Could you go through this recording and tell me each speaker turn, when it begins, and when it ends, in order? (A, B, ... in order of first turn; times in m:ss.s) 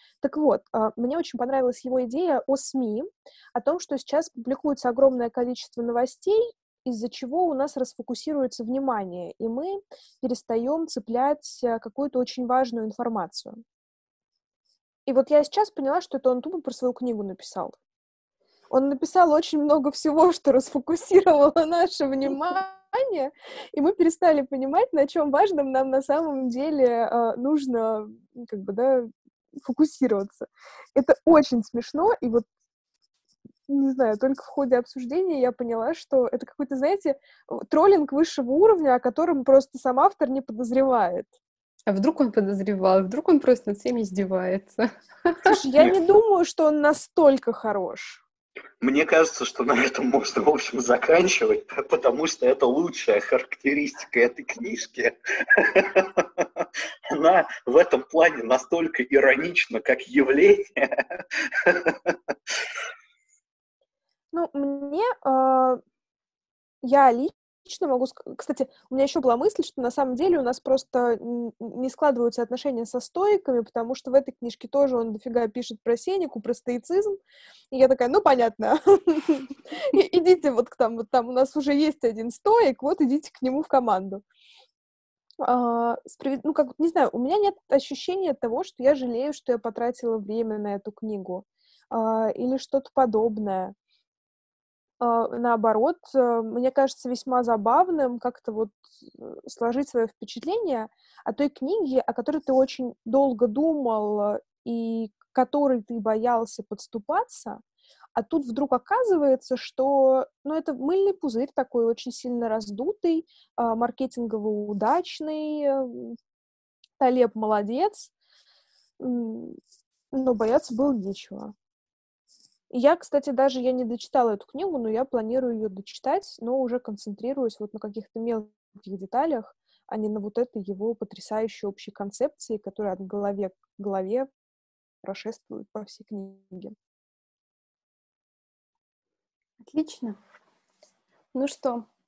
0:00.2-0:13.6 A
0:15.1-0:17.8 A
0:18.7-0:32.5 A
0:33.7-0:41.3 A
0:41.9-0:45.5 B
0:45.4-0:48.2 A
0:48.8-1:02.2 C
1:04.3-1:05.8 A
1:06.8-1:17.2 A
1:17.7-1:24.2 A
1:25.4-1:33.7 A
1:35.0-1:47.6 A
1:48.2-1:56.2 A
1:57.0-1:58.1 A
1:59.0-1:59.6 A
2:00.1-2:01.5 A
2:02.7-2:14.3 A
2:15.0-2:16.8 A
2:19.6-2:20.2 B
2:21.3-2:21.9 B